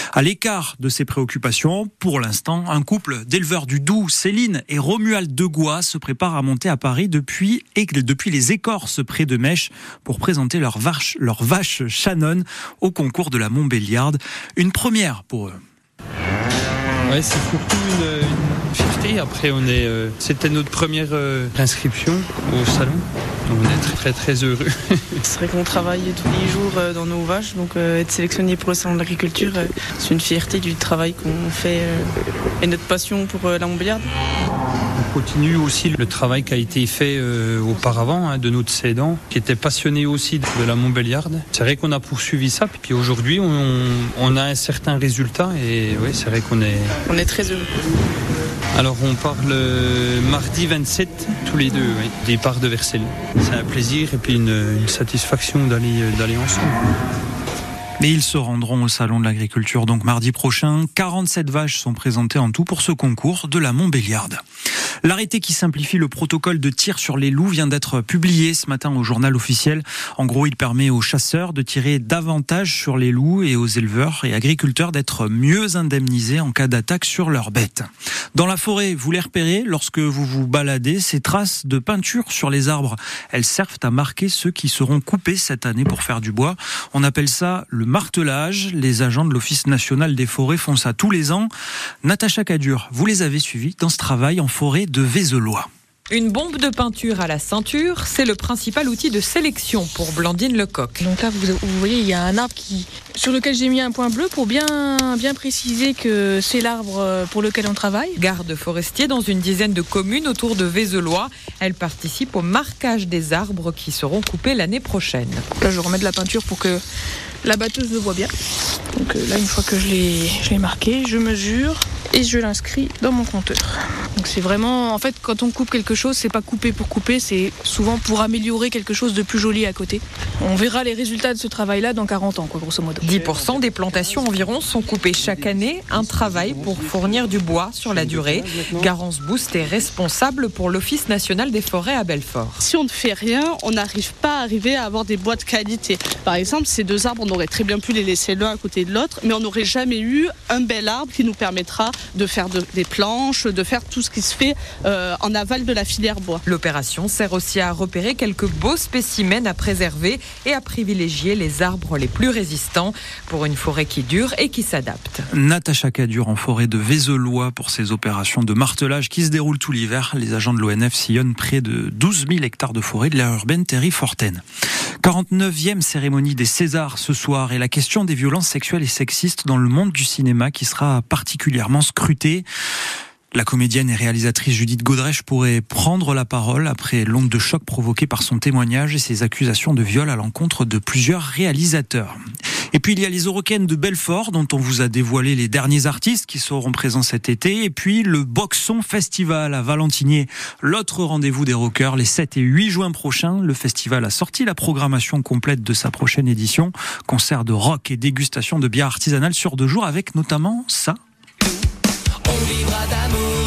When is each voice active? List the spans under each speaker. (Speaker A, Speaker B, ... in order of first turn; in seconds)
Speaker A: 0.1-15.6, 58.0-64.4, 65.0-91.5, 92.0-95.7, 165.3-174.4, 175.0-182.5, 183.3-192.2, 192.7-211.0
Speaker B: 17.1-25.2, 35.0-47.0, 48.7-56.8
Speaker C: 25.3-34.1, 47.1-47.7
Speaker D: 96.1-101.0, 108.2-115.5, 133.0-142.7, 156.4-165.3
Speaker E: 101.0-108.2, 115.6-116.8, 117.4-118.3, 119.0-133.1
Speaker F: 142.6-156.4